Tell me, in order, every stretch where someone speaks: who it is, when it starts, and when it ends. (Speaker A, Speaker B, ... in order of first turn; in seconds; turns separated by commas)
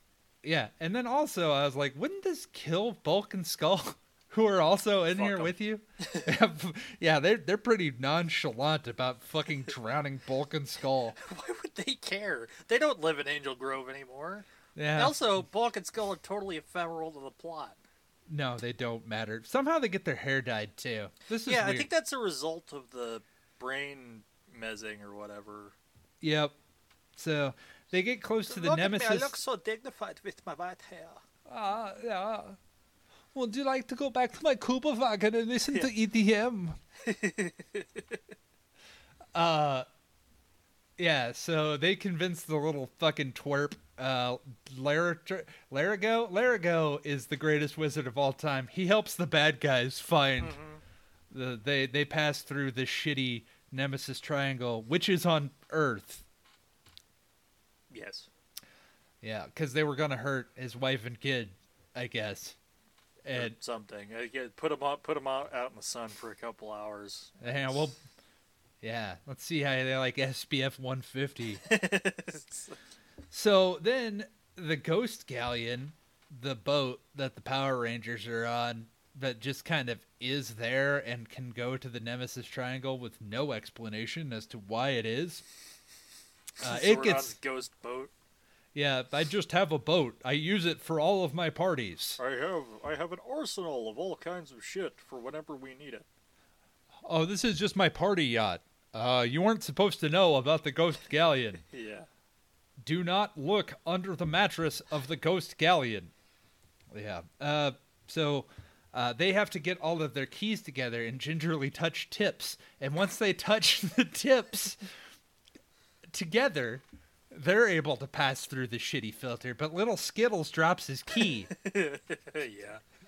Speaker A: 0.4-11.2, Speaker B: 5.1-6.3, Speaker B: 11.2-17.8, Speaker A: 14.8-15.2, Speaker A: 18.3-21.9, Speaker B: 21.4-25.8, Speaker A: 26.2-26.5, Speaker A: 27.2-29.4, Speaker B: 28.5-31.2, Speaker A: 31.5-32.6, Speaker A: 33.3-36.8, Speaker B: 37.0-38.2, Speaker A: 39.4-39.9, Speaker A: 41.0-50.6, Speaker B: 50.4-50.8, Speaker A: 51.3-56.2, Speaker B: 57.9-58.3, Speaker A: 59.2-62.6, Speaker A: 63.2-63.5, Speaker B: 63.3-67.8, Speaker A: 67.4-68.0, Speaker A: 68.8-71.6, Speaker B: 71.6-72.8, Speaker A: 73.3-85.4, Speaker A: 86.6-87.4, Speaker B: 86.6-88.1, Speaker A: 88.8-92.2, Speaker B: 92.2-96.1, Speaker A: 97.0-101.6, Speaker B: 101.6-102.1, Speaker A: 102.8-106.1, Speaker A: 106.9-114.8, Speaker A: 116.1-121.5, Speaker B: 121.2-122.8